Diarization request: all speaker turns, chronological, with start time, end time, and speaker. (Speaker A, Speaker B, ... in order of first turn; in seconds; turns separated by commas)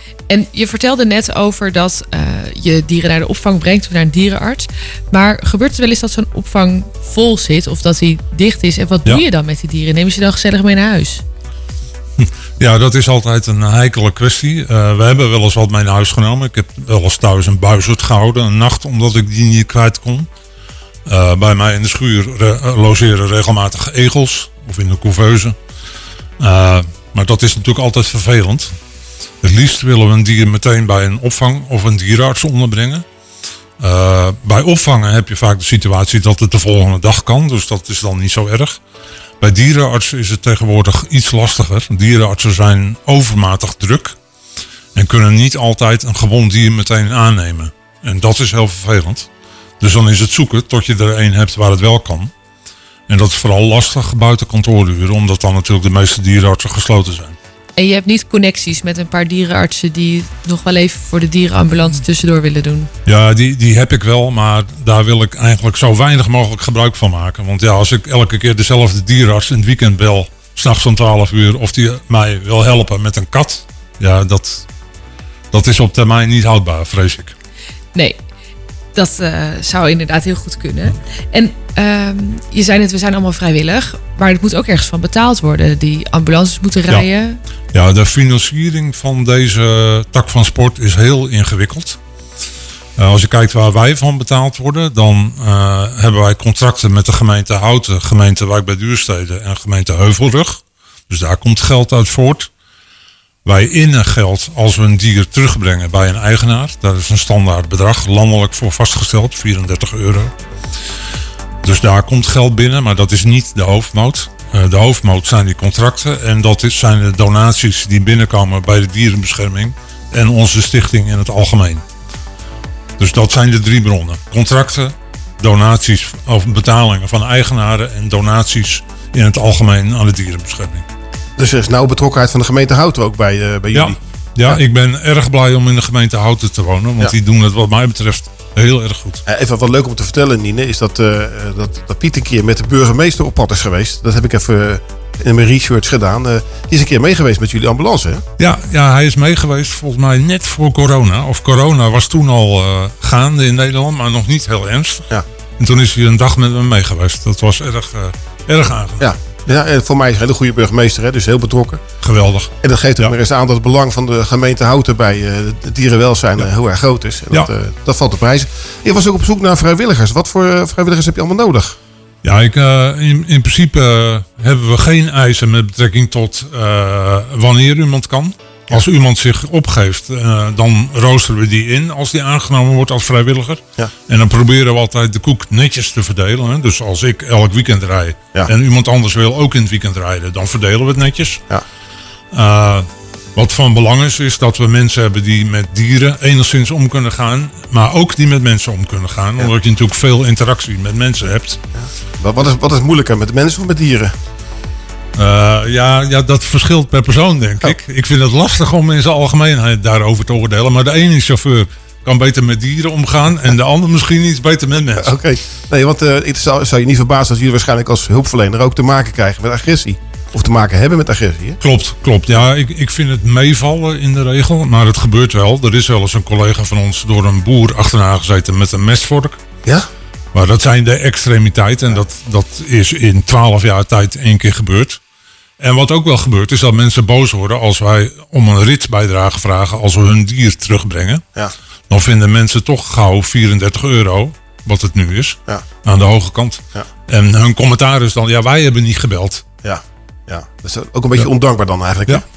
Speaker A: 0.3-11.2, Speaker B: 12.2-20.3, Speaker B: 21.1-25.6, Speaker B: 26.4-28.7, Speaker B: 29.4-33.0, Speaker B: 33.8-38.8, Speaker B: 39.4-44.2, Speaker B: 44.9-49.3, Speaker B: 49.8-52.3, Speaker B: 53.1-57.4, Speaker A: 57.8-62.9, Speaker B: 63.0-74.6, Speaker B: 75.5-77.3, Speaker A: 78.9-87.4, Speaker B: 87.7-92.0, Speaker B: 93.0-102.5, Speaker B: 103.4-110.3, Speaker B: 111.6-121.8, Speaker B: 123.0-130.8, Speaker C: 131.4-134.6, Speaker B: 133.7-139.2, Speaker C: 139.2-148.2, Speaker B: 148.4-159.1, Speaker C: 159.0-161.8, Speaker B: 162.0-163.1, Speaker C: 162.6-171.8, Speaker B: 172.2-191.4, Speaker B: 192.3-201.6, Speaker C: 201.7-204.1, Speaker B: 205.2-215.1, Speaker C: 215.0-221.6, Speaker B: 221.6-229.4, Speaker B: 230.3-235.0, Speaker B: 235.6-241.2, Speaker B: 241.9-249.4, Speaker C: 249.6-252.2